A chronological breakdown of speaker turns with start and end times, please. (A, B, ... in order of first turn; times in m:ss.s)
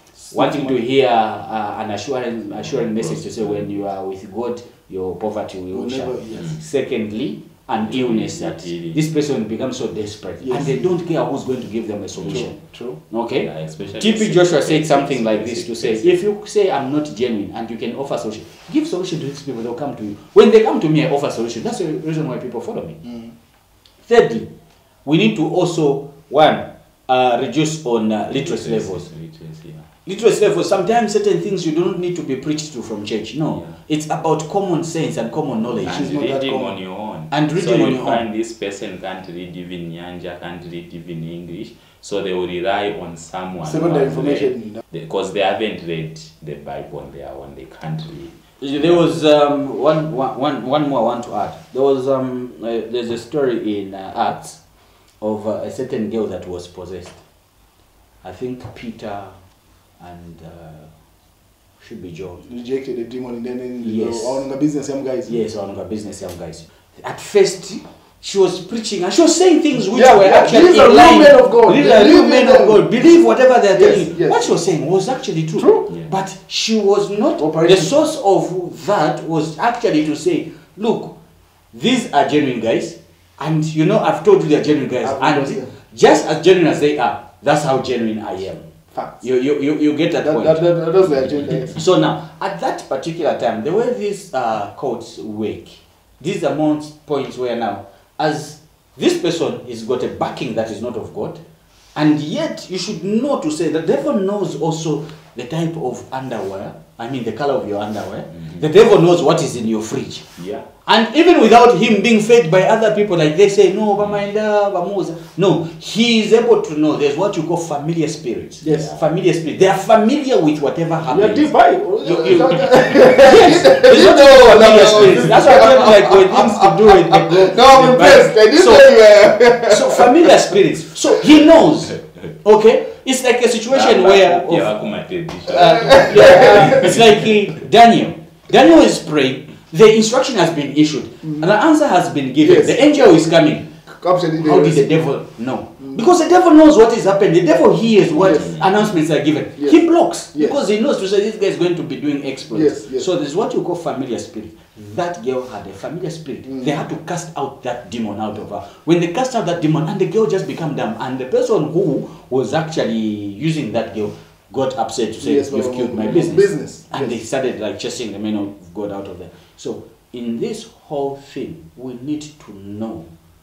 0:00.2-0:00.8 A
0:00.3-0:12.6 B
0:02.5-0:03.7 C
0:05.7-0:06.6 A
0:07.9-0:09.1 C
0:10.4-0:10.8 A
0:12.1-0:12.5 C
0:12.3-0:13.0 A
0:13.1-0:23.0 B
0:13.3-0:16.2 C
0:23.0-0:23.3 A
0:24.1-0:24.5 B
0:25.0-0:29.1 B
0:28.2-0:29.9 C
0:30.0-0:36.3 B
0:35.8-0:48.8 C
0:35.8-0:36.8 A
0:37.3-0:38.2 B
0:43.6-0:44.8 A
0:48.6-0:54.6 B
0:55.2-0:57.2 B
0:58.2-0:59.4 B
1:00.0-1:00.9 B
1:01.8-1:02.5 B
1:02.5-1:05.3 A
1:03.8-1:04.4 B
1:05.2-1:21.2 B
1:09.8-1:12.8 A
1:13.7-1:14.6 A
1:15.6-1:15.8 A
1:17.4-1:17.9 A
1:21.7-1:28.7 B
1:25.0-1:25.7 A
1:28.9-1:29.2 A
1:29.2-1:30.6 B
1:30.2-1:31.8 A
1:31.7-1:41.4 B
1:41.9-1:50.3 B
1:48.4-1:48.6 C
1:50.4-1:50.7 C
1:50.8-2:14.7 B
1:58.6-1:58.9 A
1:58.6-1:59.0 C
2:01.1-2:10.5 A
2:11.9-2:12.3 C
2:13.7-2:17.4 C
2:15.5-2:23.7 B
2:15.6-2:16.8 A
2:22.4-2:22.8 A
2:23.9-2:24.9 A
2:24.4-2:53.1 B
2:28.1-2:29.0 C
2:28.2-2:28.4 A
2:29.6-2:30.6 A
2:32.5-2:33.1 A
2:45.2-2:47.2 A